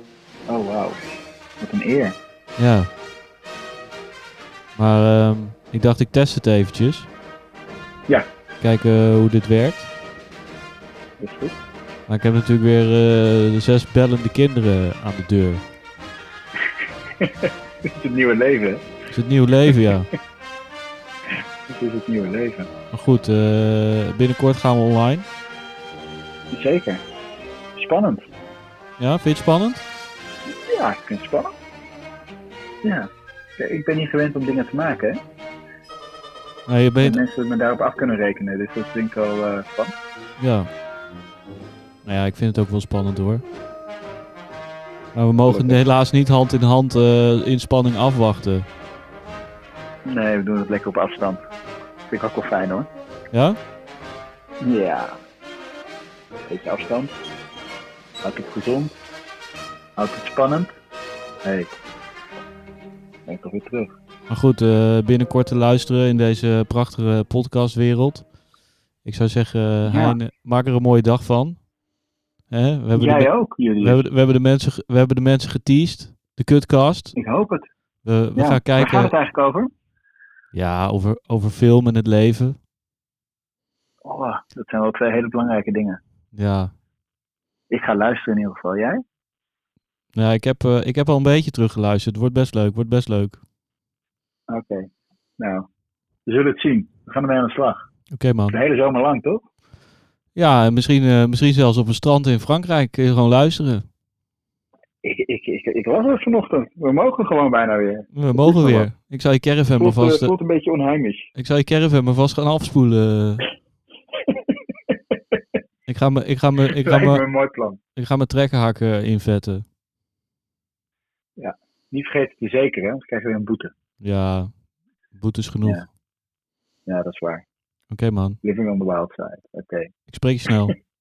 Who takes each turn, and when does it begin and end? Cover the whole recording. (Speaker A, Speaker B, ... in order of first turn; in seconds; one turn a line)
Speaker A: 0.5-1.0
Speaker A: 1.6-2.1
Speaker B: 2.6-2.9
Speaker B: 4.8-7.1
Speaker B: 8.6-9.9
Speaker A: 11.2-11.6
Speaker B: 12.1-15.6
Speaker A: 17.2-18.9
Speaker B: 19.1-20.1
Speaker A: 21.7-22.7
Speaker B: 22.9-25.3
Speaker A: 26.5-27.0
Speaker A: 27.8-28.2
Speaker B: 29.0-29.8
Speaker A: 30.6-31.5
Speaker A: 33.6-35.2
Speaker B: 36.7-37.2
Speaker A: 37.0-39.9
Speaker B: 40.4-40.7
Speaker B: 42.0-43.4
Speaker B: 45.1-48.6
Speaker A: 45.5-45.8
Speaker A: 50.0-51.4
Speaker A: 52.1-52.9
Speaker B: 53.3-53.6
Speaker A: 54.6-55.1
Speaker A: 56.5-57.1
Speaker A: 58.2-58.9
Speaker A: 60.0-60.7
Speaker A: 61.4-61.7
Speaker A: 63.2-63.9
Speaker B: 64.3-68.3
Speaker B: 69.0-71.7
Speaker A: 69.8-70.2
Speaker B: 72.5-77.1
Speaker A: 72.9-74.0
Speaker A: 77.1-77.7
Speaker B: 78.0-79.1
Speaker A: 78.3-79.7
Speaker B: 80.5-82.6
Speaker A: 84.0-86.0
Speaker B: 86.3-86.7
Speaker A: 87.7-89.0
Speaker B: 90.1-93.4
Speaker A: 94.5-94.9
Speaker A: 95.4-95.7
Speaker A: 96.2-97.8
Speaker B: 98.1-98.6
Speaker A: 98.5-99.4
Speaker B: 100.3-103.8
Speaker A: 105.0-108.9
Speaker B: 108.1-110.3
Speaker A: 109.8-111.3
Speaker B: 111.3-113.5
Speaker B: 115.9-117.2
Speaker A: 116.8-117.8
Speaker B: 118.0-119.6
Speaker A: 121.4-123.7
Speaker B: 124.0-124.5
Speaker B: 125.1-125.8
Speaker A: 125.6-125.9
Speaker A: 126.9-127.4
Speaker B: 127.9-128.4
Speaker A: 128.4-129.9
Speaker B: 130.1-130.7